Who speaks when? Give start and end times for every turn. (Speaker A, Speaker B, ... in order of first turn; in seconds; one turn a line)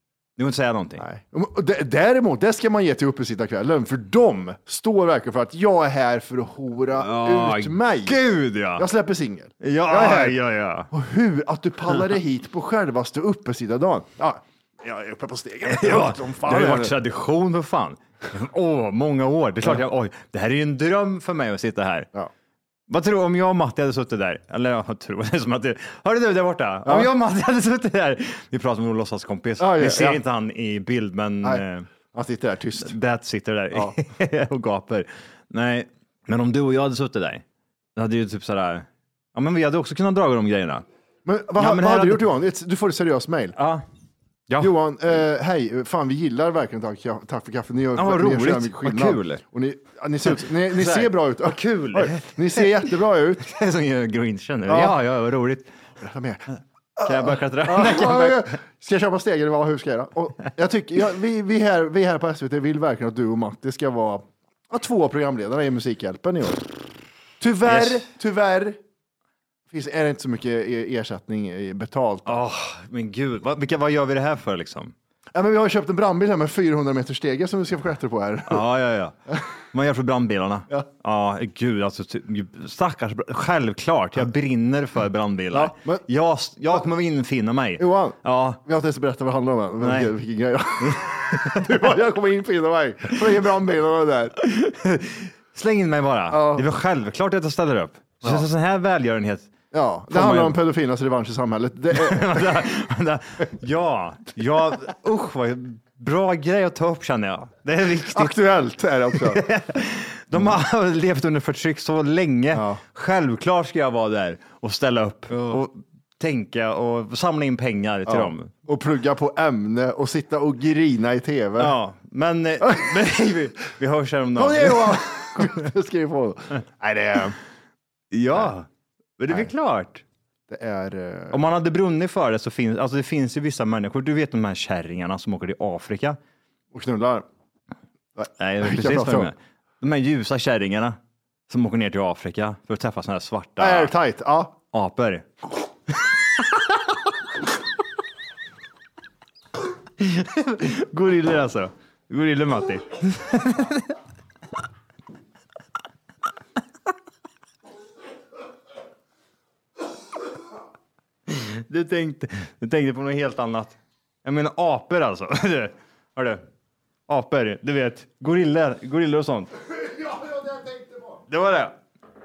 Speaker A: 0.4-1.1
Speaker B: 1.0-8.2
Speaker A: 7.0-8.8
Speaker B: 8.7-10.4
Speaker A: 9.6-10.9
Speaker B: 10.9-16.9
Speaker A: 15.7-22.1
Speaker A: 22.9-31.9
Speaker B: 26.9-27.1
Speaker B: 29.6-30.2
Speaker B: 31.4-32.9
Speaker A: 32.8-37.4
Speaker A: 38.0-40.8
Speaker B: 41.2-43.6
Speaker A: 41.5-42.2
Speaker A: 43.6-43.8
Speaker B: 44.6-53.5
Speaker A: 48.0-49.4
Speaker A: 50.7-52.8
Speaker A: 53.4-55.7
Speaker B: 54.6-55.0
Speaker B: 56.0-56.4
Speaker B: 57.0-66.7
Speaker A: 57.0-58.5
Speaker B: 67.4-68.8
Speaker A: 67.6-68.1
Speaker B: 69.7-72.4
Speaker A: 72.2-74.9
Speaker B: 75.3-78.6
Speaker A: 78.5-79.2
Speaker A: 79.7-88.6
Speaker B: 85.5-86.0
Speaker B: 87.8-94.3
Speaker A: 89.8-90.1
Speaker A: 90.8-91.9
Speaker A: 94.4-99.5
Speaker B: 96.3-96.7
Speaker B: 99.7-102.6
Speaker A: 100.1-100.6
Speaker A: 101.9-108.4
Speaker B: 108.0-109.4
Speaker A: 109.1-118.5
Speaker B: 112.5-112.8
Speaker B: 115.3-115.6
Speaker B: 118.1-121.7
Speaker A: 121.6-125.6
Speaker B: 122.6-123.0
Speaker B: 124.3-127.3
Speaker A: 128.1-128.7
Speaker A: 129.2-130.0
Speaker B: 130.5-131.4
Speaker A: 131.3-136.2
Speaker B: 136.7-137.2
Speaker B: 138.2-139.3
Speaker A: 138.4-141.0
Speaker A: 141.5-143.9
Speaker B: 143.6-144.5
Speaker A: 144.7-145.3
Speaker A: 150.0-153.9
Speaker A: 161.3-166.4
Speaker A: 167.1-169.5
Speaker B: 169.7-171.2
Speaker A: 171.3-171.7